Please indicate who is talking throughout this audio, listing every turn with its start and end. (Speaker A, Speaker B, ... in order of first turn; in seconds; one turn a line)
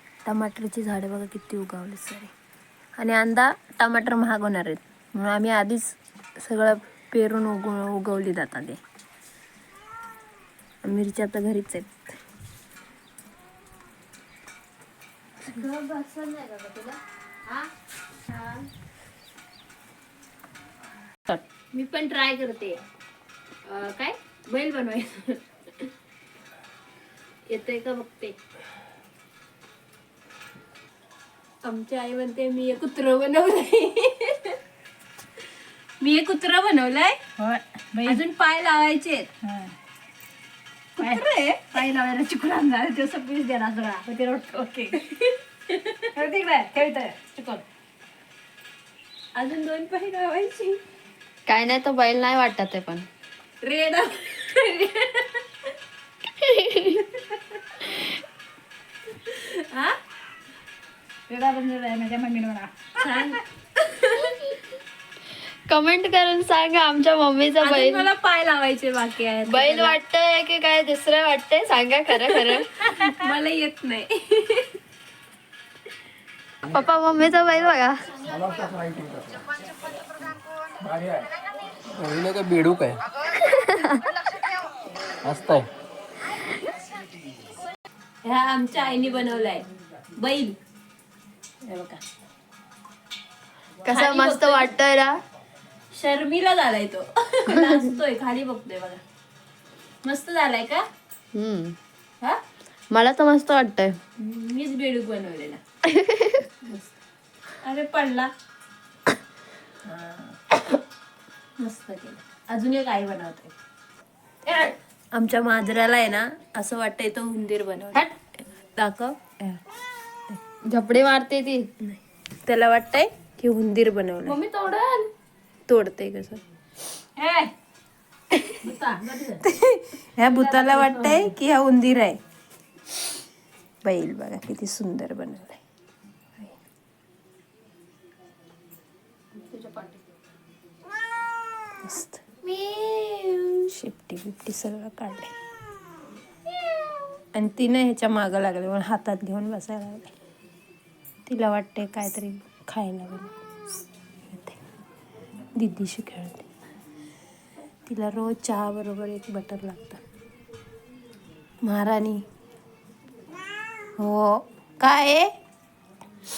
Speaker A: 0.2-2.3
Speaker A: 3.0-5.9
Speaker A: 6.4-8.8
Speaker A: 10.8-12.1
Speaker A: 15.4-17.7
Speaker A: 18.3-18.7
Speaker A: 21.7-22.8
Speaker A: 23.7-25.4
Speaker A: 27.5-28.4
Speaker A: 31.6-34.6
Speaker A: 36.0-37.2
Speaker B: 37.4-38.2
Speaker A: 38.1-39.3
Speaker B: 39.4-39.7
Speaker B: 41.0-45.0
Speaker A: 45.0-46.1
Speaker B: 46.1-47.6
Speaker A: 49.4-50.8
Speaker C: 51.5-53.1
Speaker A: 53.6-55.4
Speaker C: 56.4-57.0
Speaker A: 56.9-57.9
Speaker A: 59.3-59.9
Speaker B: 61.3-63.3
Speaker A: 63.0-64.5
Speaker C: 65.7-68.1
Speaker A: 67.6-70.0
Speaker C: 69.5-72.9
Speaker A: 72.4-74.7
Speaker C: 76.6-78.0
Speaker D: 78.7-79.2
Speaker D: 81.9-83.0
Speaker C: 83.5-83.9
Speaker D: 85.2-85.7
Speaker A: 88.2-90.6
Speaker A: 91.6-92.0
Speaker A: 93.8-94.7
Speaker C: 93.8-95.2
Speaker A: 95.9-99.0
Speaker A: 100.0-100.8
Speaker C: 101.3-101.8
Speaker C: 102.9-104.0
Speaker A: 104.2-105.6
Speaker C: 105.9-106.4
Speaker A: 106.6-106.9
Speaker A: 107.6-108.3
Speaker A: 109.9-110.6
Speaker A: 111.6-113.5
Speaker A: 115.1-118.1
Speaker A: 118.8-119.6
Speaker C: 120.7-121.7
Speaker A: 121.9-124.4
Speaker C: 124.3-125.1
Speaker A: 125.7-126.4
Speaker B: 127.2-127.5
Speaker B: 128.6-129.4
Speaker A: 129.0-132.2
Speaker B: 130.2-131.3
Speaker A: 133.8-135.6
Speaker B: 139.4-139.9
Speaker A: 141.8-145.3
Speaker A: 147.3-150.1
Speaker A: 151.3-153.3
Speaker A: 154.3-154.6
Speaker A: 155.6-156.5
Speaker A: 157.9-160.0
Speaker A: 161.7-162.2
Speaker A: 164.0-165.3